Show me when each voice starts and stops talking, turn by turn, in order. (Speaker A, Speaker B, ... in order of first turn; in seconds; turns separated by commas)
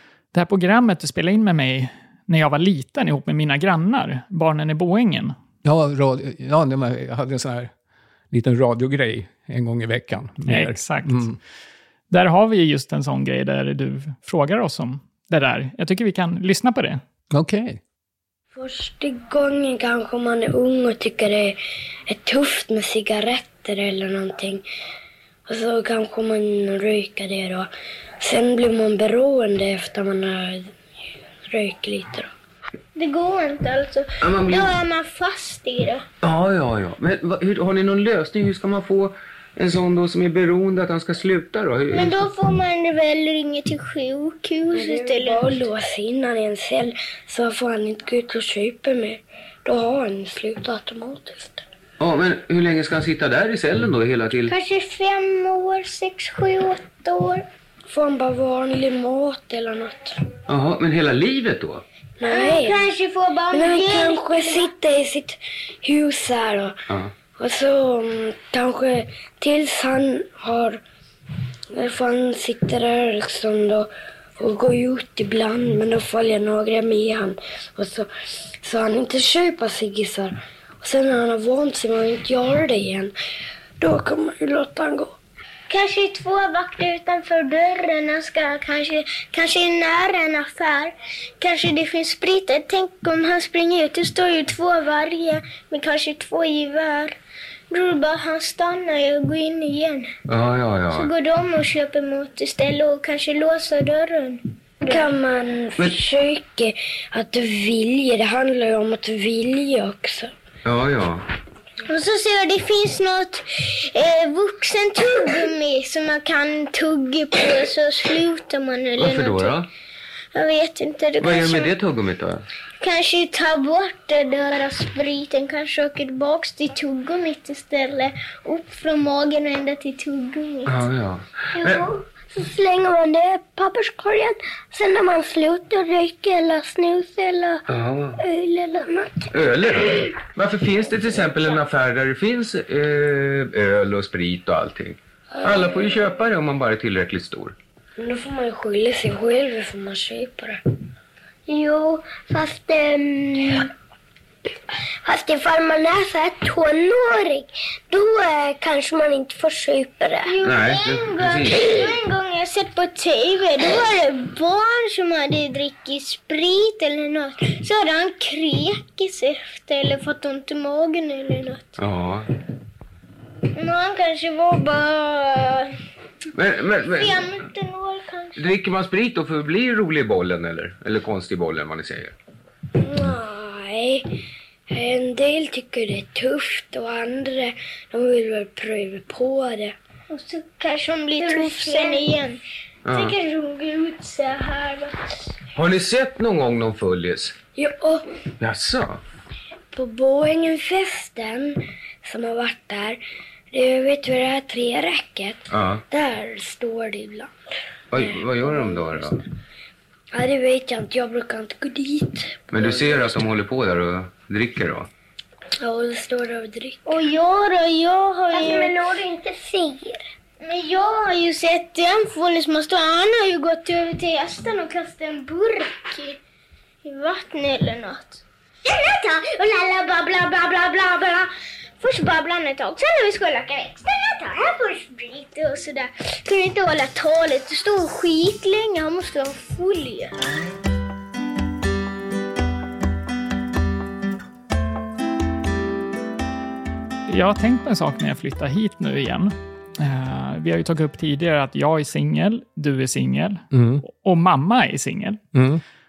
Speaker A: 0.3-5.3, Speaker B: 5.6-7.7, Speaker B: 8.3-11.4, Speaker A: 10.4-11.2, Speaker A: 12.1-17.0, Speaker B: 17.3-17.8, Speaker C: 18.5-24.6, Speaker C: 25.5-27.7, Speaker C: 28.2-30.7, Speaker C: 31.5-32.3, Speaker D: 33.0-36.0, Speaker E: 34.2-34.7, Speaker E: 36.2-42.2, Speaker D: 41.9-45.6, Speaker C: 44.7-51.6, Speaker E: 52.0-54.5, Speaker D: 54.5-57.5, Speaker C: 57.9-60.2, Speaker E: 60.5-61.8, Speaker C: 62.2-62.9, Speaker D: 62.2-64.7, Speaker C: 63.5-66.7, Speaker C: 67.3-70.8, Speaker C: 71.7-78.1, Speaker C: 78.6-83.1, Speaker C: 83.8-85.1, Speaker D: 85.7-97.1, Speaker D: 97.7-100.1, Speaker E: 100.3-101.1, Speaker D: 100.9-105.1, Speaker C: 104.8-110.3, Speaker E: 110.6-111.2, Speaker D: 111.8-119.5, Speaker E: 119.0-119.7, Speaker D: 120.3-121.7, Speaker E: 121.2-122.4, Speaker D: 122.8-130.8, Speaker E: 130.7-131.9, Speaker C: 131.5-137.6, Speaker E: 137.7-138.2, Speaker C: 138.2-139.3, Speaker E: 139.3-147.6, Speaker C: 145.4-145.8, Speaker C: 148.0-150.6, Speaker C: 151.5-153.7, Speaker C: 155.0-160.3, Speaker D: 160.2-171.8, Speaker E: 160.4-161.7, Speaker E: 171.8-172.3, Speaker D: 173.5-175.8, Speaker E: 176.3-177.3, Speaker D: 176.9-178.4, Speaker E: 178.3-182.1, Speaker C: 182.8-184.0, Speaker C: 184.7-189.7, Speaker D: 190.1-192.4, Speaker C: 191.2-192.2, Speaker E: 192.8-193.2, Speaker D: 192.9-194.9, Speaker E: 195.5-197.3, Speaker C: 197.5-198.2, Speaker E: 198.4-199.0, Speaker C: 199.7-203.0, Speaker C: 203.5-207.3, Speaker E: 205.5-205.8, Speaker E: 207.9-209.2, Speaker C: 207.9-209.2, Speaker C: 210.1-213.2, Speaker E: 212.5-214.9, Speaker C: 215.6-216.8, Speaker D: 216.8-218.8, Speaker C: 218.3-220.0, Speaker D: 220.4-226.2, Speaker D: 226.8-231.3, Speaker D: 231.8-240.2, Speaker A: 247.1-255.2, Speaker B: 253.5-253.8, Speaker B: 255.3-255.6